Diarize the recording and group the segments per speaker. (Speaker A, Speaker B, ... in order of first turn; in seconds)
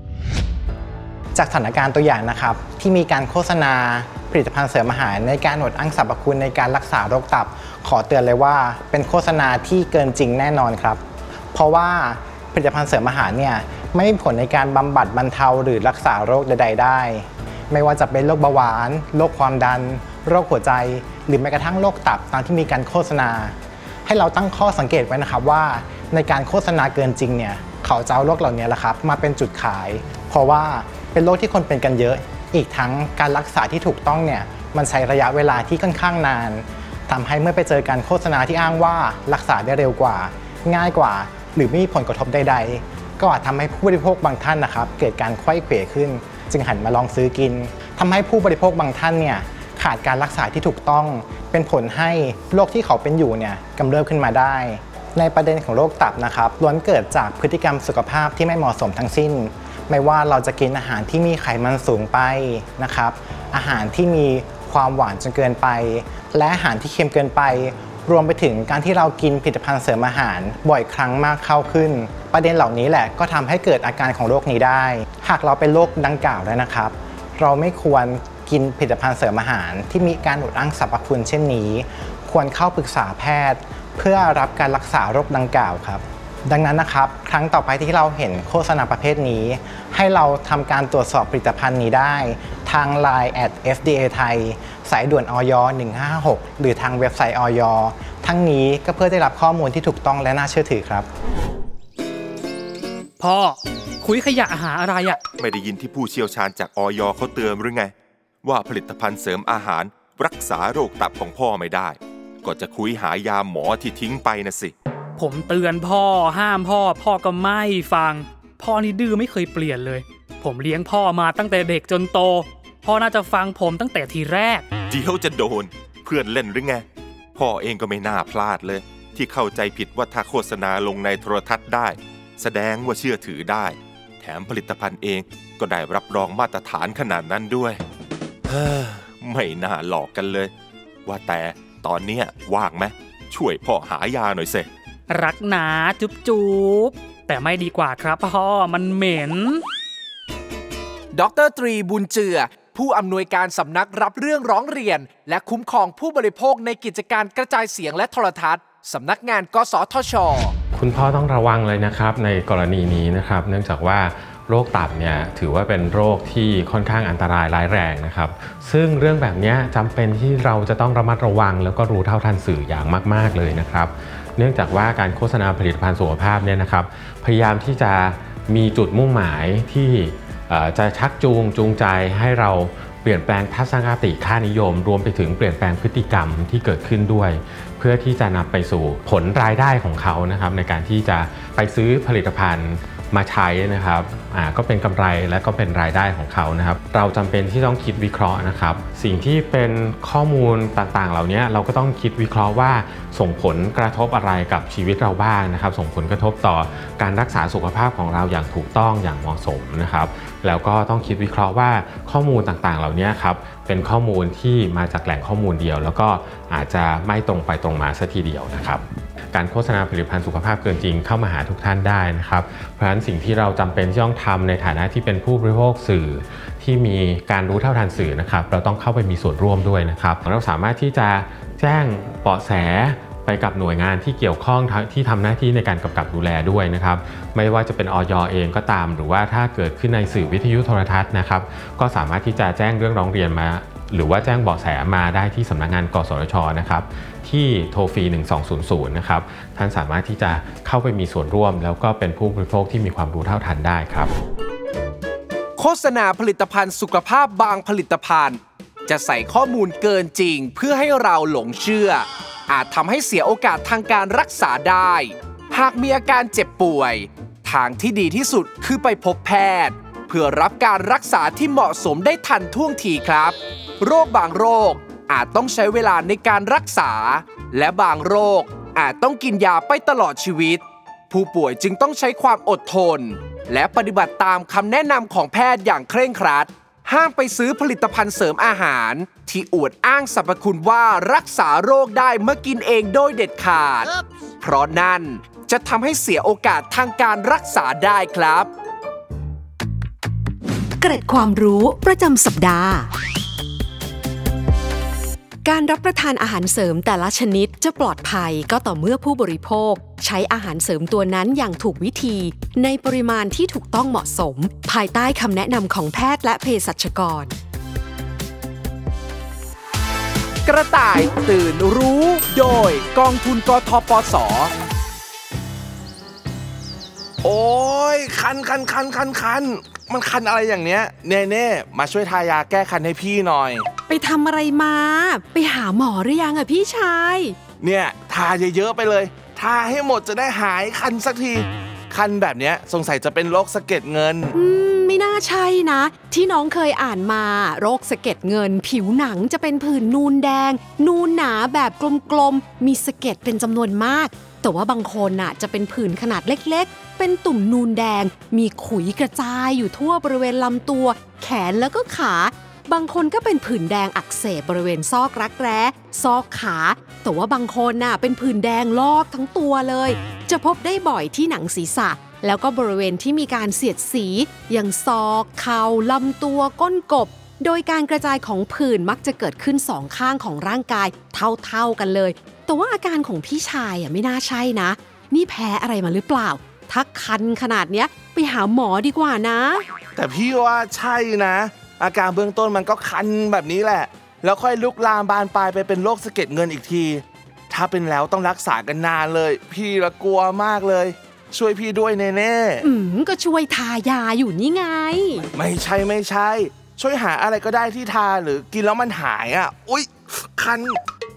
Speaker A: 1.4-101.1
Speaker B: 103.2-105.2, 115.2-124.7, 145.1-149.6
Speaker C: 105.4-107.9, 108.4-114.7, 124.9-126.8, 127.4-137.8, 138.5-140.5, 141.1-144.7
Speaker D: 151.1-160.5, 255.6-298.5, 320.5-324.5
Speaker E: 160.7-254.1
Speaker F: 300.8-302.9, 305.4-317.4, 333.9-337.4, 344.3-389.6, 402.6-405.3
Speaker G: 327.2-333.6, 337.6-344.4, 389.9-402.6, 405.3-410.8